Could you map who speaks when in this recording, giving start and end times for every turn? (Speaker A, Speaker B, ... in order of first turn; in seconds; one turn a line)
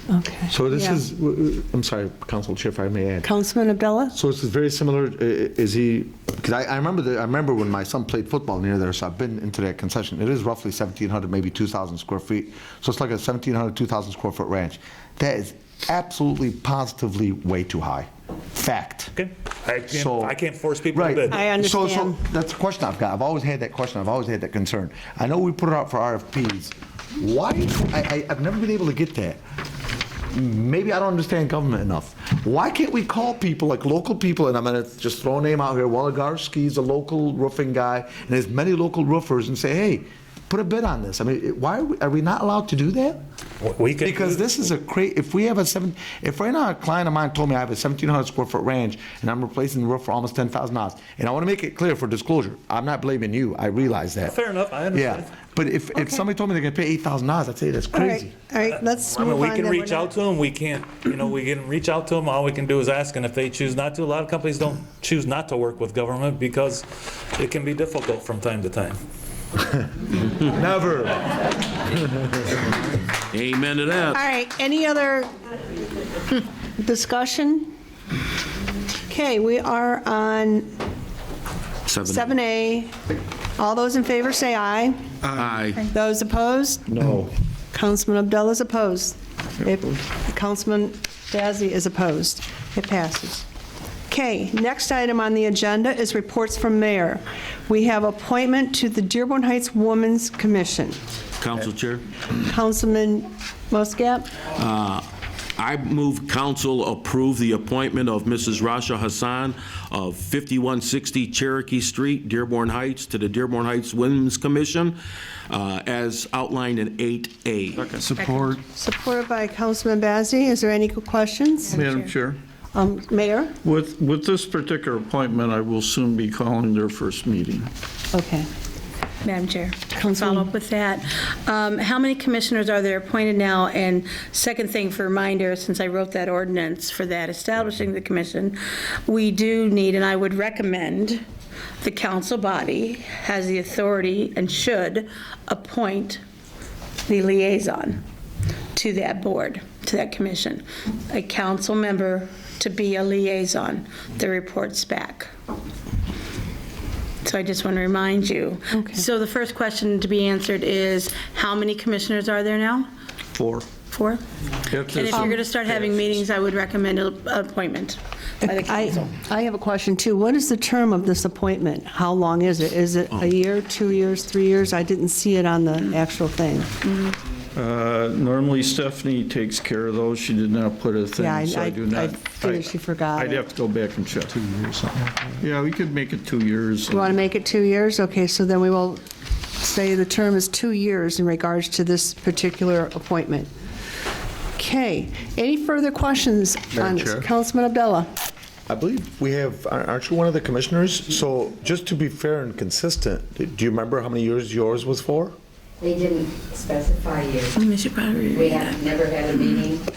Speaker A: 0.1-1.0
Speaker B: 0.5-3.3
Speaker A: 3.2-4.2
Speaker B: 4.1-19.1
Speaker C: 19.1-21.4
Speaker B: 19.9-20.4
Speaker B: 20.9-29.4
Speaker A: 21.3-22.2
Speaker B: 30.3-43.2
Speaker C: 43.6-44.5
Speaker B: 44.0-54.4
Speaker C: 54.3-55.3
Speaker B: 54.9-58.3
Speaker A: 56.0-56.2
Speaker A: 57.9-60.1
Speaker C: 58.7-69.0
Speaker B: 70.5-72.3
Speaker D: 73.3-74.2
Speaker A: 74.1-75.3
Speaker A: 76.3-77.7
Speaker A: 79.1-80.7
Speaker D: 81.9-82.4
Speaker A: 82.1-82.9
Speaker A: 83.6-85.0
Speaker D: 85.3-85.8
Speaker A: 85.9-87.0
Speaker B: 86.9-87.3
Speaker A: 87.7-93.5
Speaker A: 94.1-101.0
Speaker D: 101.4-102.0
Speaker A: 102.3-104.3
Speaker D: 104.5-115.0
Speaker D: 115.5-118.1
Speaker A: 118.6-121.8
Speaker E: 121.7-122.4
Speaker A: 122.7-123.6
Speaker E: 123.6-127.7
Speaker A: 128.1-128.5
Speaker F: 129.2-141.2
Speaker A: 129.9-130.5
Speaker F: 141.8-146.2
Speaker F: 147.1-148.0
Speaker F: 148.7-155.3
Speaker F: 157.2-162.9
Speaker A: 158.7-159.1
Speaker E: 163.3-163.7
Speaker F: 163.9-164.2
Speaker E: 164.7-165.9
Speaker F: 164.8-169.1
Speaker A: 168.4-176.8
Speaker F: 176.8-177.2
Speaker E: 177.5-184.8
Speaker A: 181.2-183.4
Speaker E: 185.4-187.2
Speaker A: 186.9-189.0
Speaker A: 189.6-193.5
Speaker A: 194.6-198.1
Speaker B: 196.7-197.3
Speaker B: 198.7-205.4
Speaker G: 205.8-207.5
Speaker F: 207.6-209.6
Speaker G: 208.3-209.8